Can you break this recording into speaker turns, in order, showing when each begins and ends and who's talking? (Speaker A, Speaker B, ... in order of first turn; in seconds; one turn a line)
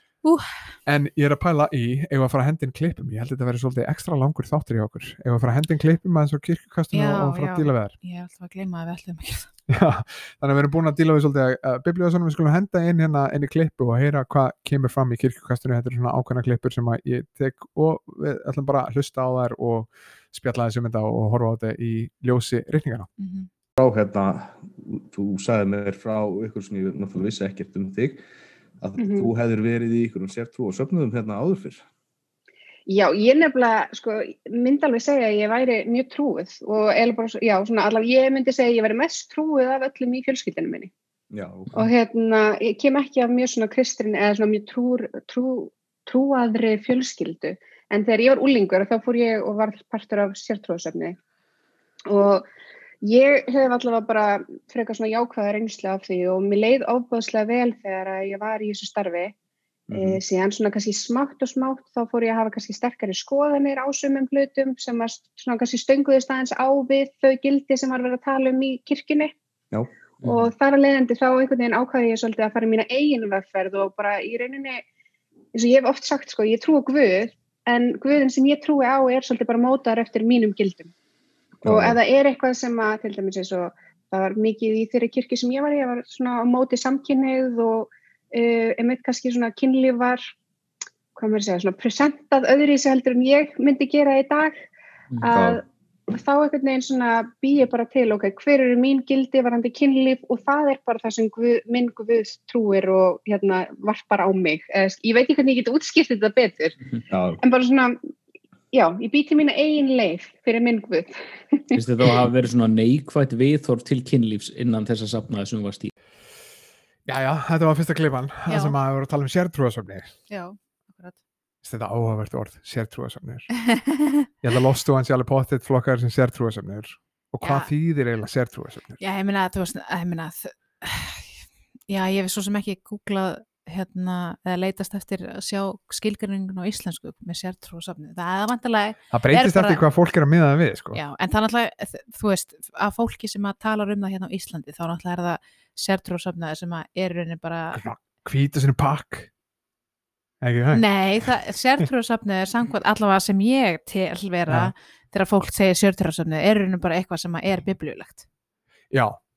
Speaker A: 0.2-0.7
Speaker B: 0.8-7.9
Speaker A: 6.9-9.5
Speaker B: 9.7-23.1
Speaker A: 23.2-23.5
Speaker C: 23.8-28.2
Speaker C: 28.8-31.8
Speaker D: 29.0-29.3
Speaker D: 32.9-40.9
Speaker C: 41.3-41.9
Speaker D: 41.7-51.1
Speaker D: 52.1-52.4
Speaker D: 53.0-59.3
Speaker C: 59.9-60.2
Speaker D: 59.9-69.3
Speaker E: 70.2-70.5
Speaker D: 70.2-74.8
Speaker D: 75.5-80.9
Speaker C: 81.6-82.0
Speaker D: 81.6-90.2
Speaker D: 91.1-94.6
Speaker D: 95.2-106.7
Speaker C: 95.3-95.6
Speaker C: 107.1-107.4
Speaker D: 107.4-108.0
Speaker D: 108.7-111.7
Speaker E: 111.7-115.9
Speaker B: 117.0-120.1
Speaker A: 118.5-118.8
Speaker A: 120.3-121.2
Speaker B: 121.6-123.6
Speaker A: 123.7-124.0
Speaker B: 124.4-129.0
Speaker A: 127.4-127.7
Speaker A: 129.0-139.8
Speaker B: 139.1-141.0
Speaker A: 140.9-147.8
Speaker B: 147.7-149.3
Speaker B: 150.4-151.8
Speaker A: 150.7-158.2
Speaker B: 154.5-154.7
Speaker B: 158.9-159.2